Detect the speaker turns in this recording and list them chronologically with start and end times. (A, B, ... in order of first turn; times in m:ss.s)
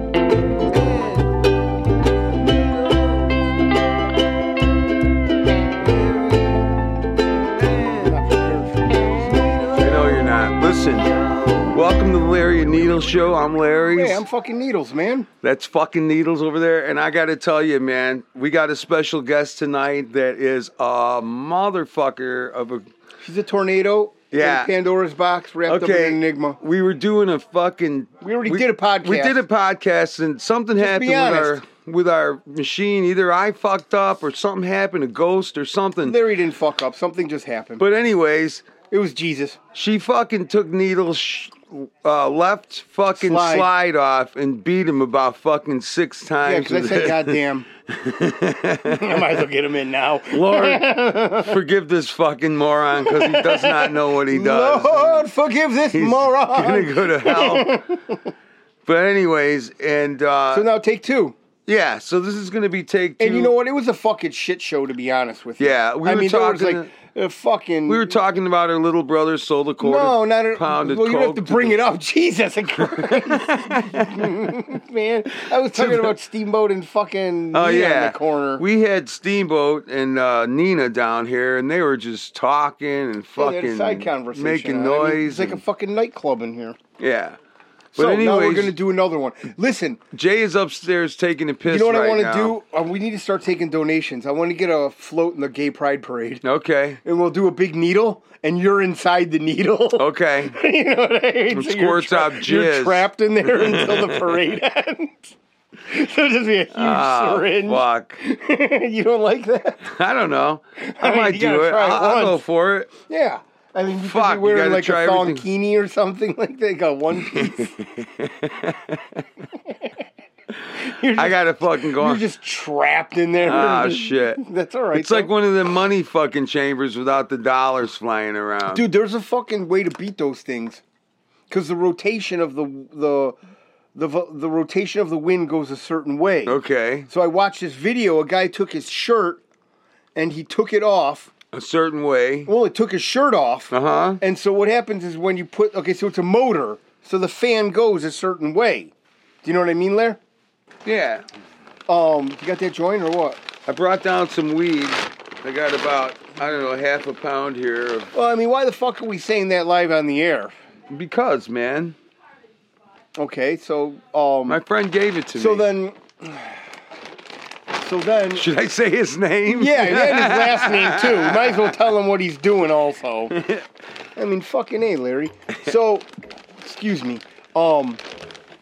0:00.7-0:01.3 A
0:02.4-0:03.0 A
0:05.8-0:06.4 A
0:07.6-0:08.1 A
0:08.0-0:10.2 B
0:09.8-0:14.2 A
0:13.9-0:15.3 B
0:15.4-0:22.8 A
0:23.2-0:26.6 B
0:24.3-0:24.7 A
0:25.7-0:36.2 A
0:28.2-0:29.4 B
0:30.8-0:31.6 B
0:36.0-0:37.8 B
0:37.8-0:38.7 A
0:38.9-0:39.6 B
0:39.7-0:49.3 A
0:43.1-0:43.7 B
0:46.4-0:47.7 B
0:48.8-0:51.6 B
0:50.3-0:55.2 A
0:53.0-0:58.3 B
0:55.9-0:57.8 A
0:58.8-1:00.7 A
1:00.5-1:01.4 B
1:01.7-1:03.5 A
1:03.2-1:08.1 B
1:05.6-1:06.9 A
1:07.9-1:11.8 A
1:09.8-1:18.6 B
1:12.8-1:14.5 A
1:15.4-1:16.1 A
1:17.5-1:25.6 A
1:23.4-1:26.8 B
1:27.0-1:27.4 A
1:28.0-1:28.8 A
1:28.0-1:30.0 B
1:30.1-1:32.5 A
1:31.6-1:36.4 B
1:36.4-1:37.0 A
1:37.0-1:45.3 B
1:40.0-1:40.6 A
1:41.5-1:44.4 A
1:45.8-1:49.9 B
1:46.7-1:48.2 A
1:49.8-1:52.9 A
1:50.8-1:52.4 B
1:53.1-1:57.7 B
1:54.0-1:55.4 A
1:57.2-1:59.2 A
2:00.6-2:02.2 A
2:00.8-2:05.3 B
2:03.4-2:04.4 A
2:04.9-2:08.8 A
2:08.7-2:10.8 B
2:11.5-2:13.4 B
2:13.9-2:19.4 B
2:16.4-2:17.1 A
2:20.1-2:21.3 B
2:21.5-2:22.5 A
2:22.4-2:28.9 B
2:23.7-2:24.2 A
2:29.4-2:30.2 B
2:30.8-2:31.2 A
2:31.9-2:33.4 B
2:33.7-2:38.1 A
2:38.1-2:40.5 B
2:40.9-2:42.0 A
2:43.2-2:44.6 B
2:44.5-2:45.7 A
2:45.3-2:46.6 B
2:47.7-2:48.4 B
2:48.3-2:51.7 A
2:49.5-2:53.4 B
2:53.3-2:53.6 A
2:54.2-2:56.1 B
2:56.6-2:58.0 B